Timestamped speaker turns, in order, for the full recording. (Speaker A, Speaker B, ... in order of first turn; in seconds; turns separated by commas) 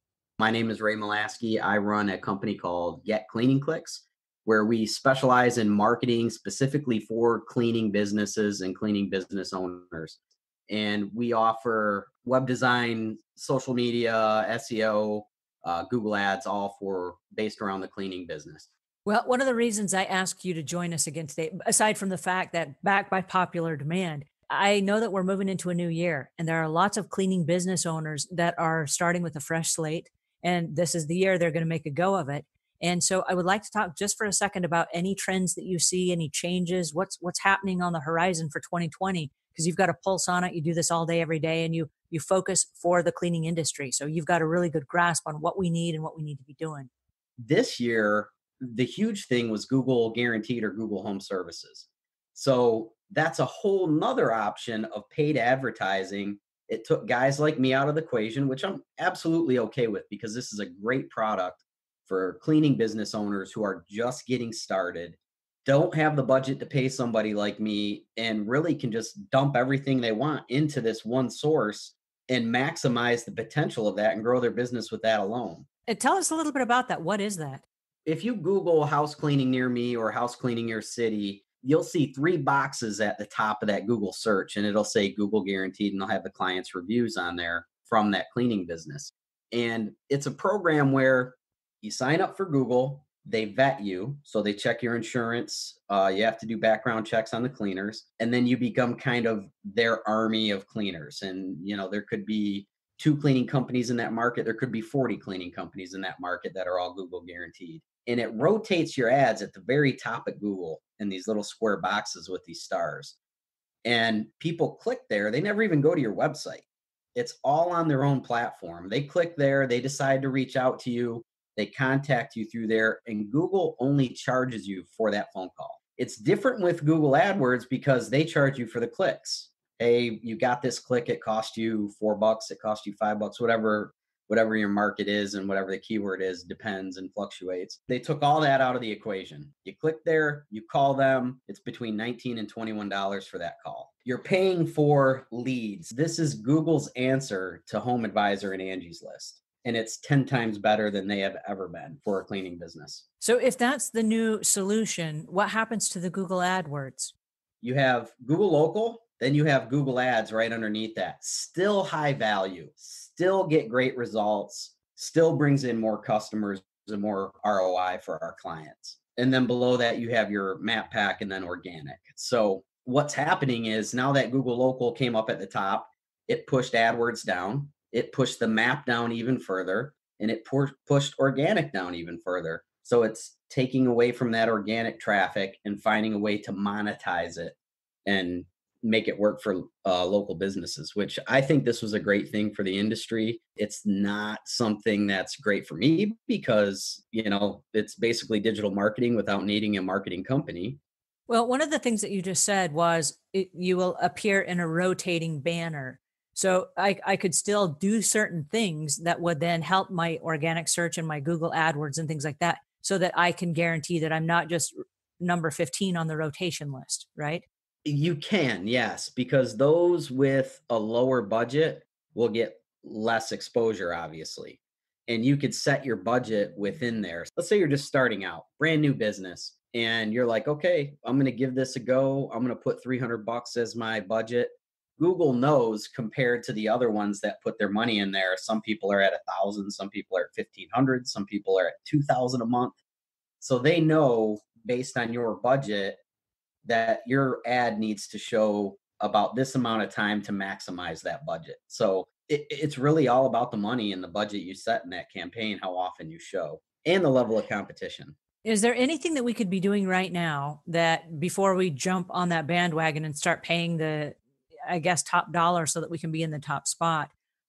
Speaker A: 0.4-10.2, Speaker A: 10.7-18.7, Speaker B: 19.1-46.9, Speaker A: 47.4-75.7, Speaker B: 75.9-77.6, Speaker A: 78.0-113.2, Speaker A: 113.8-153.0, Speaker B: 153.2-157.1, Speaker A: 157.6-200.8, Speaker B: 201.3-217.4, Speaker A: 217.8-242.8, Speaker A: 243.4-246.0, Speaker A: 246.6-258.1, Speaker B: 258.4-267.1